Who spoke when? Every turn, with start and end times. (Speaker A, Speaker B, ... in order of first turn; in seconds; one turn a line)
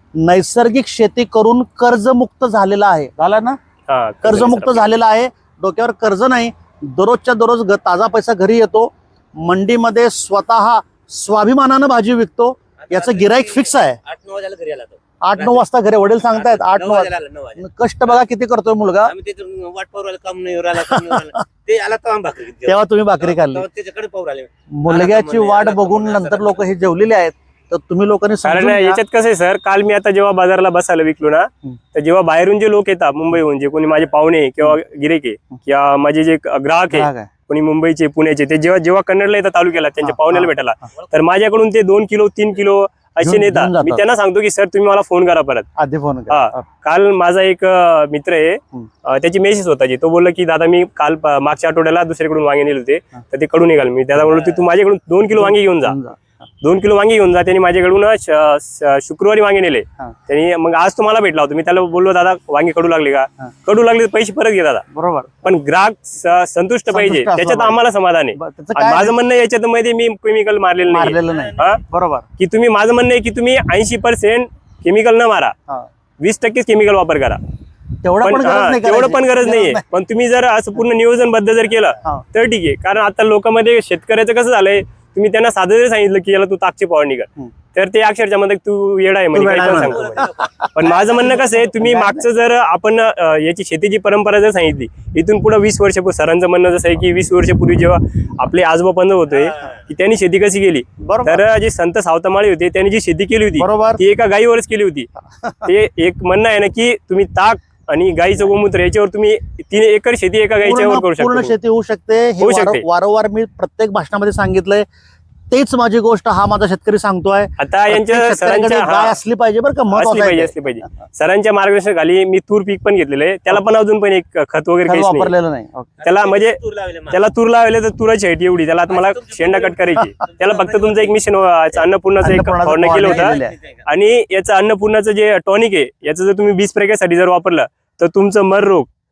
Speaker A: 0.2-3.6
Speaker B: 3.9-5.0
Speaker A: 4.2-14.0
Speaker C: 12.8-15.6
Speaker A: 15.2-19.1
Speaker C: 16.3-18.1
Speaker C: 19.0-26.7
Speaker A: 20.8-21.4
Speaker A: 22.6-23.7
Speaker A: 24.7-29.0
Speaker B: 28.4-45.7
Speaker A: 36.9-37.3
Speaker A: 40.0-40.9
Speaker A: 43.2-44.0
Speaker A: 45.8-46.6
Speaker B: 46.3-56.0
Speaker A: 55.4-56.2
Speaker B: 56.6-64.8
Speaker A: 64.9-65.4
Speaker B: 65.4-71.8
Speaker A: 66.9-67.8
Speaker A: 68.3-69.2
Speaker A: 70.9-72.3
Speaker C: 71.2-71.6
Speaker B: 72.4-75.5
Speaker B: 76.2-77.4
Speaker A: 78.0-79.8
Speaker B: 78.2-105.1
Speaker A: 89.3-92.2
Speaker C: 89.4-91.7
Speaker C: 99.4-99.8
Speaker A: 101.0-101.4
Speaker A: 103.6-104.0
Speaker A: 105.4-105.7
Speaker B: 105.7-111.5
Speaker A: 110.6-114.9
Speaker B: 112.4-112.8
Speaker A: 115.5-120.6
Speaker B: 117.6-119.2
Speaker B: 119.9-125.3
Speaker A: 124.8-125.9
Speaker C: 126.0-127.2
Speaker B: 126.0-126.6
Speaker B: 127.1-138.9
Speaker C: 128.9-131.2
Speaker A: 132.2-133.6
Speaker C: 132.9-133.8